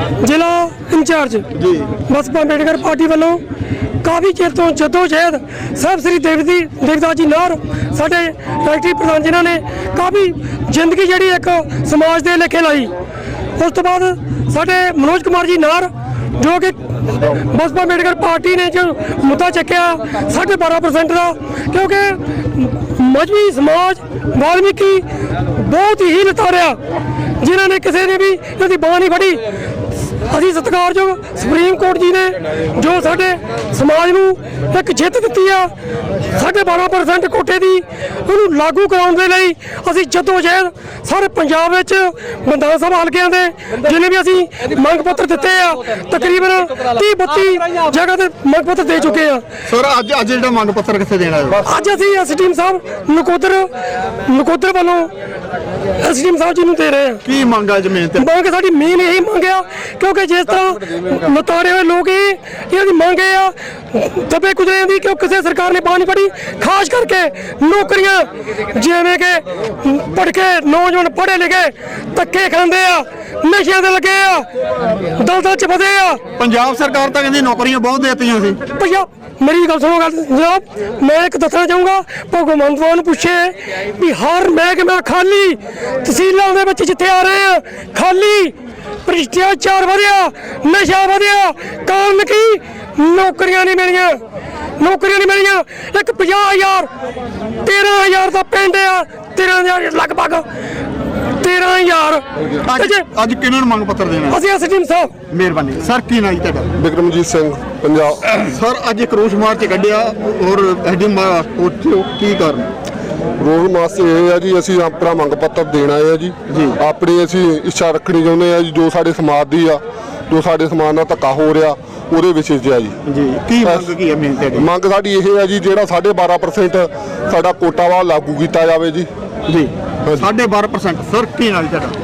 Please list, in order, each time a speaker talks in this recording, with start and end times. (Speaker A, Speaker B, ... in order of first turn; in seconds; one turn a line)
Speaker A: 0.2-1.5
Speaker B: 1.6-1.9
Speaker A: 2.1-3.4
Speaker A: 4.0-12.9
Speaker A: 13.6-26.8
Speaker A: 27.4-29.5
Speaker A: 30.3-35.7
Speaker A: 36.3-49.4
Speaker B: 49.7-51.6
Speaker A: 51.7-53.7
Speaker A: 54.3-55.1
Speaker A: 56.0-57.3
Speaker B: 57.2-58.3
Speaker A: 58.2-74.5
Speaker A: 75.1-76.2
Speaker B: 76.4-78.6
Speaker A: 78.8-94.2
Speaker A: 94.8-96.9
Speaker A: 97.6-100.5
Speaker A: 101.4-102.2
Speaker B: 102.6-104.4
Speaker A: 102.8-103.0
Speaker A: 104.3-105.1
Speaker B: 105.3-106.7
Speaker C: 106.8-108.4
Speaker B: 108.5-112.7
Speaker C: 113.4-123.0
Speaker B: 116.5-116.8
Speaker B: 123.1-124.7
Speaker C: 123.6-123.9
Speaker C: 124.5-129.1
Speaker B: 129.5-131.9